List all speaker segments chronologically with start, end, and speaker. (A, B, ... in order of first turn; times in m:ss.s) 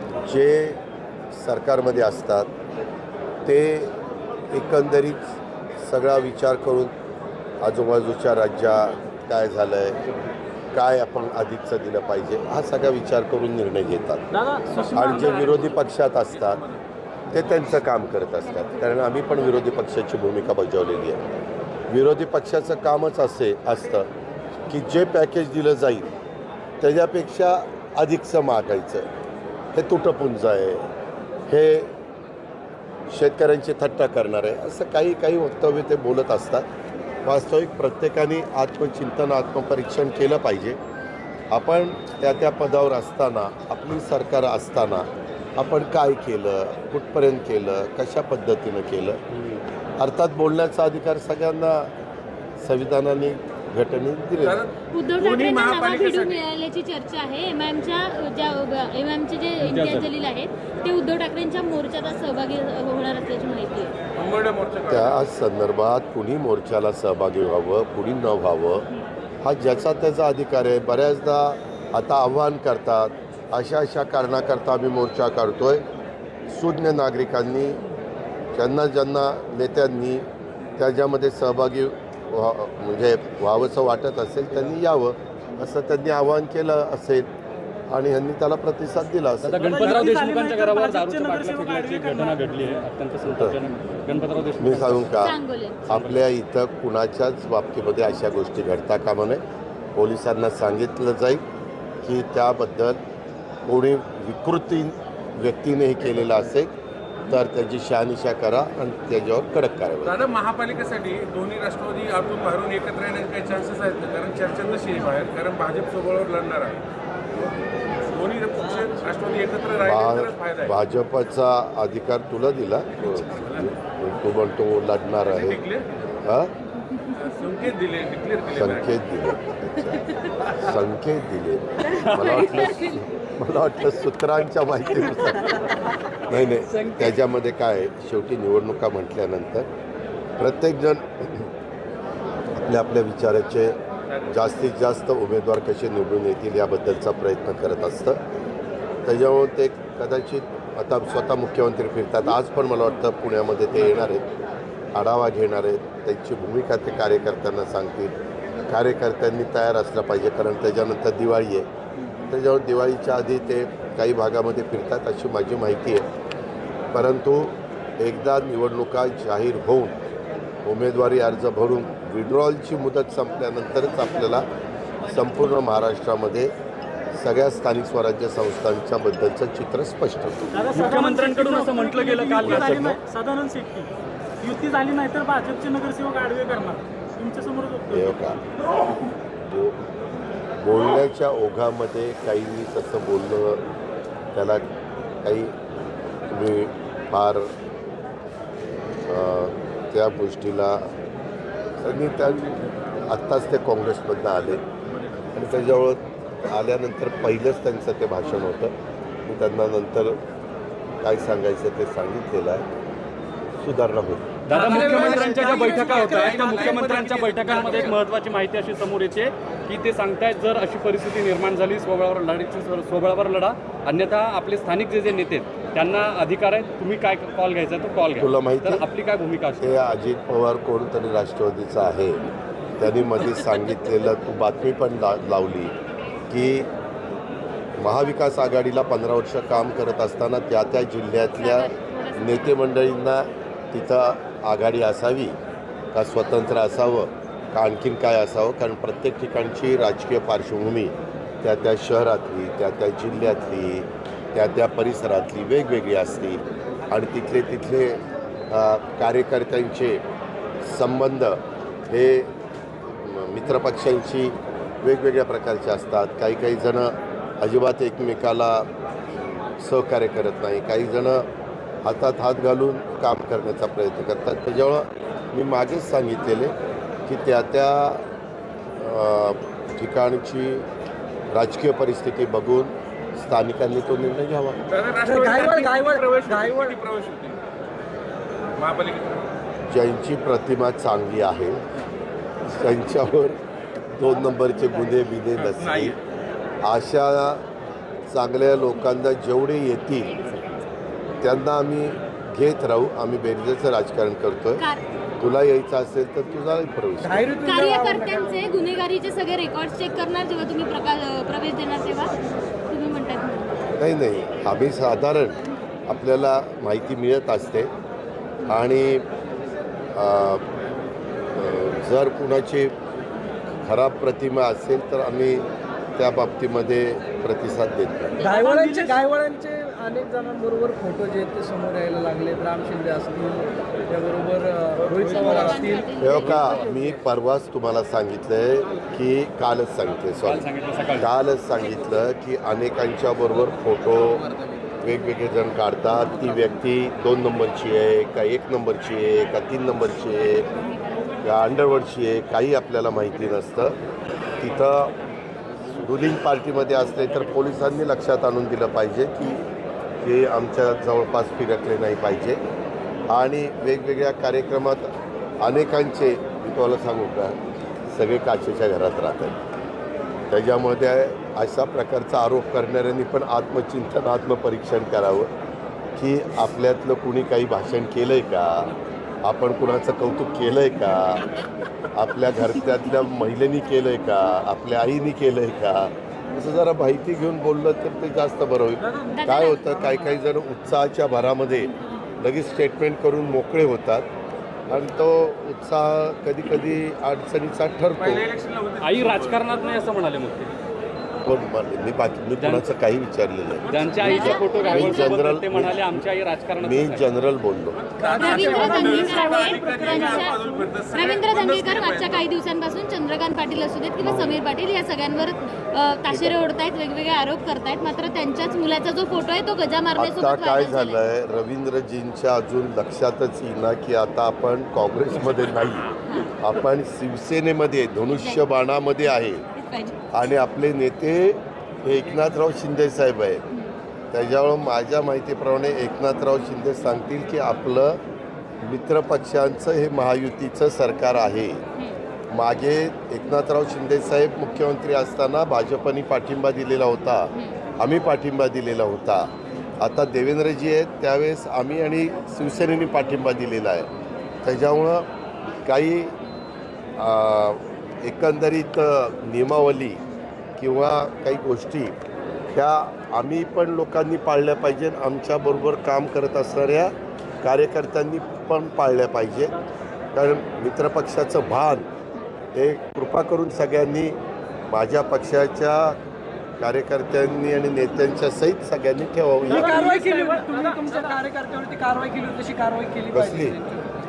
0:00.3-0:00.8 A
0:01.3-0:02.5 A
0:03.4-0:03.9 A
0:04.5-0:06.9 A
0:07.6-0:10.0 A
0:10.7-0:14.3 A
0:14.3-0:15.1 B
0:14.9-0:16.6 A
0:15.1-0:16.8 C
0:17.3-0:21.2 A
0:21.9-0:24.1 A
0:24.7-0:26.1 A
0:26.8-0:29.1 A
0:29.8-0:30.9 A
0:31.5-0:31.9 A
0:33.1-0:36.7 A
0:37.2-0:40.8 A
0:41.5-0:49.2 A
0:49.3-0:49.6 D
0:50.0-0:51.9 A
0:52.6-0:54.7 A
0:54.4-0:56.4 C
0:54.9-1:04.0 E
0:59.6-1:00.1 D
1:04.2-1:05.2 C
1:04.9-1:08.9 A
1:09.4-1:15.8 A
1:16.5-1:17.8 A
1:18.6-1:20.3 A
1:20.8-1:27.3 A
1:27.9-1:30.1 A
1:29.4-1:35.2 D
1:29.6-1:32.5 B
1:33.3-1:33.6 A
1:34.6-1:39.4 A
1:35.2-1:35.9 E
1:35.9-1:36.2 D
1:40.0-1:41.4 A
1:42.0-1:43.0 A
1:43.7-1:46.7 A
1:47.3-1:50.2 A
1:50.0-1:56.8 C
1:58.1-2:00.8 C
1:58.6-1:59.0 F
1:59.8-2:05.6 A
2:03.0-2:03.8 C
2:05.3-2:06.1 C
2:06.2-2:06.5 A
2:07.1-2:08.9 C
2:08.6-2:19.7 A
2:11.9-2:12.8 D
2:16.8-2:17.1 F
2:20.4-2:21.5 A
2:22.6-2:23.8 A
2:24.3-2:28.2 A
2:29.0-2:34.3 A
2:35.0-2:38.1 A
2:38.7-2:41.7 A
2:42.3-2:46.1 A
2:46.9-2:50.0 A
2:50.6-2:54.5 A
2:55.0-2:56.5 A
2:57.1-3:00.4 A
3:00.5-3:03.9 B
3:00.7-3:03.0 D
3:04.4-3:08.2 B
3:07.9-3:08.4 A
3:09.4-3:09.8 A
3:10.6-3:13.6 A
3:14.3-3:14.7 A
3:15.2-3:15.5 A
3:16.3-3:17.5 A
3:19.1-3:20.9 A
3:21.8-3:22.5 A
3:23.1-3:24.6 A
3:25.4-3:28.8 A
3:29.3-3:30.2 A
3:31.0-3:32.6 A
3:33.6-3:34.3 A
3:34.4-3:49.8 D
3:34.5-3:36.8 F
3:34.5-3:38.0 C
3:48.2-3:48.9 A
3:49.6-3:52.2 A
3:52.8-3:55.7 A
3:56.3-3:56.7 A
3:57.8-4:05.4 A
4:01.4-4:02.6 E
4:05.9-4:20.0 A
4:20.6-4:22.3 A
4:23.0-4:28.7 A
4:29.6-4:31.3 A
4:31.8-4:36.6 A
4:37.1-4:38.1 A
4:38.8-4:40.7 A
4:41.3-4:44.6 A
4:44.7-4:47.4 C
4:45.0-4:46.8 F
4:48.6-4:49.3 C
4:49.7-4:51.6 A
4:52.4-4:53.4 A
4:53.9-4:56.0 A
4:55.4-4:56.0 C
4:56.6-4:57.4 A
4:58.1-5:00.2 A
5:01.2-5:04.6 A
5:04.6-5:04.8 E
5:05.2-5:07.3 A
5:07.0-5:08.6 F
5:07.4-5:12.1 E
5:12.7-5:13.6 E
5:13.8-5:17.7 A
5:18.5-5:19.0 A
5:20.0-5:20.4 A
5:21.3-5:22.7 A
5:23.6-5:28.2 A
5:28.2-5:29.0 B
5:28.2-5:36.6 F
5:35.0-5:36.6 E
5:36.0-5:44.3 A
5:40.2-5:41.1 D
5:44.8-5:50.5 A
5:51.2-5:53.8 A
5:54.4-5:54.9 A
5:55.8-5:59.4 A
6:00.0-6:02.4 A
6:03.1-6:07.4 A
6:07.9-6:09.4 A
6:10.3-6:15.3 A
6:16.0-6:21.3 A
6:21.9-6:34.1 A
6:29.1-6:29.9 E
6:34.7-6:38.2 A
6:38.0-6:39.4 C
6:38.8-6:40.5 D
6:41.2-6:46.1 A
6:42.4-6:42.7 D
6:43.6-6:44.2 C
6:43.7-6:47.1 D
6:44.0-6:45.2 E
6:46.6-6:47.8 A
6:47.7-6:52.3 C
6:48.0-6:50.4 F
6:48.1-7:01.0 E
6:50.0-6:50.7 B
6:54.1-6:54.3 A
6:56.1-6:56.4 A
7:00.0-7:09.4 A
7:06.0-7:06.3 E
7:08.1-7:08.4 E
7:09.6-7:10.1 E
7:10.1-7:13.4 A
7:14.1-7:18.0 A
7:18.6-7:21.6 A
7:22.3-7:33.9 A
7:27.3-7:27.6 E
7:34.4-7:35.1 A
7:35.7-7:36.2 A
7:37.0-7:40.0 A
7:40.6-7:42.0 A
7:42.5-7:49.6 A
7:50.1-7:51.9 A
7:52.6-7:54.2 A
7:54.7-7:56.0 A
7:56.6-7:59.8 A
7:59.4-8:03.9 F
7:59.5-8:01.2 B
8:03.1-8:03.6 A